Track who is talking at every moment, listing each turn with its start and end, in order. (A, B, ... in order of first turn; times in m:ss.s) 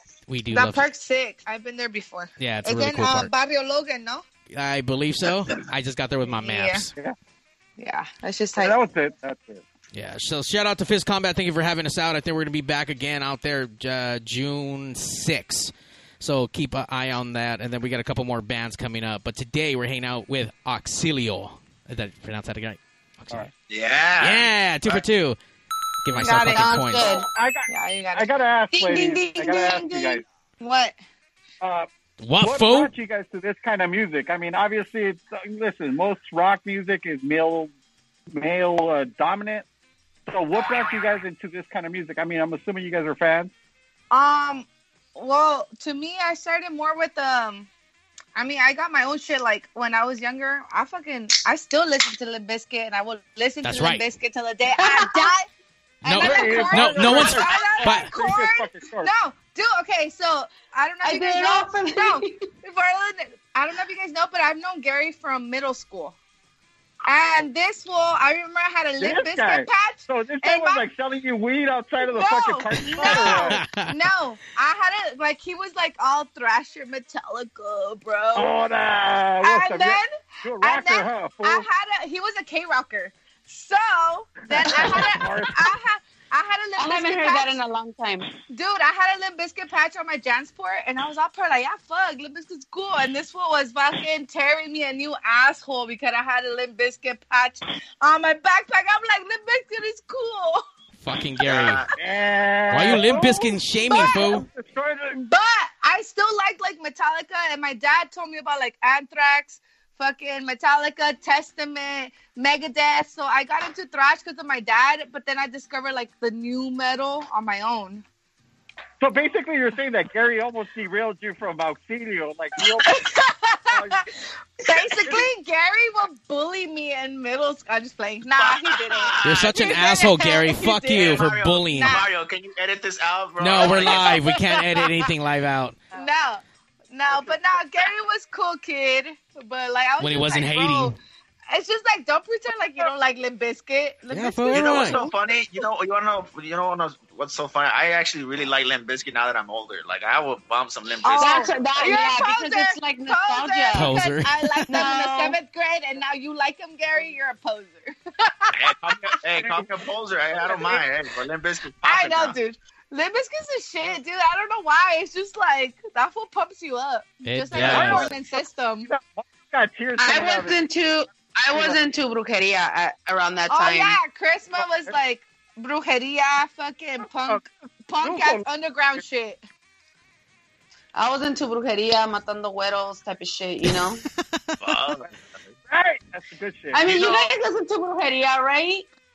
0:00.3-0:00.9 A
0:00.5-0:04.2 B
0:02.4-0:03.3 A
0:04.5-0:06.9 A
0:06.3-0:06.8 B
0:07.8-0:08.8 B
0:08.6-0:09.6 C
0:09.9-0:23.5 A
0:23.7-0:25.0 D
0:24.2-0:25.4 A
0:26.0-0:27.1 A
0:26.2-0:27.1 B
0:26.4-0:27.3 E
0:27.0-0:30.2 C
0:27.7-0:28.3 B
0:28.7-0:30.2 E
0:30.6-0:31.0 B
0:31.6-0:37.7 C
0:32.2-0:32.9 A
0:38.3-0:39.7 C
0:40.3-0:43.5 C
0:44.1-0:47.7 B
0:48.4-0:55.5 B
0:53.6-0:54.0 A
0:54.8-0:55.3 E
0:56.0-0:58.1 A
0:56.1-0:56.9 E
0:56.1-1:06.2 B
0:56.1-0:59.1 C
1:01.0-1:02.5 E
1:07.1-1:10.9 B
1:09.0-1:13.6 C
1:12.0-1:18.5 B
1:12.8-1:13.9 A
1:18.4-1:21.7 C
1:19.4-1:20.1 B
1:20.6-1:27.6 B
1:24.5-1:25.7 C
1:26.8-1:28.3 E
1:28.5-1:40.6 B
1:41.0-1:41.8 A
1:41.4-1:41.9 D
1:42.0-1:45.3 C
1:42.7-1:44.5 A
1:43.9-1:44.2 B
1:45.3-1:58.0 B
1:59.0-2:03.1 C
2:02.8-2:04.0 B
2:03.7-2:04.0 C
2:04.6-2:11.2 B
2:04.7-2:05.3 C
2:08.4-2:09.8 D
2:09.2-2:12.0 A
2:10.9-2:14.2 D
2:11.8-2:12.1 B
2:13.4-2:15.8 A
2:13.6-2:14.3 B
2:15.9-2:21.0 B
2:20.0-2:21.0 A
2:21.5-2:25.1 B
2:24.1-2:25.0 A
2:24.5-2:31.5 D
2:31.0-2:38.6 B
2:31.1-2:33.9 E
2:33.8-2:34.8 A
2:34.7-2:35.4 E
2:38.5-2:42.4 D
2:40.5-2:40.8 B
2:41.8-2:48.9 B
2:47.2-2:48.1 A
2:47.6-2:50.6 C
2:50.0-2:54.0 E
2:51.5-2:51.8 C
2:53.5-2:59.4 B
2:58.0-2:58.5 C
3:00.9-3:04.0 E
3:04.6-3:05.5 D
3:05.7-3:07.2 C
3:06.7-3:08.9 E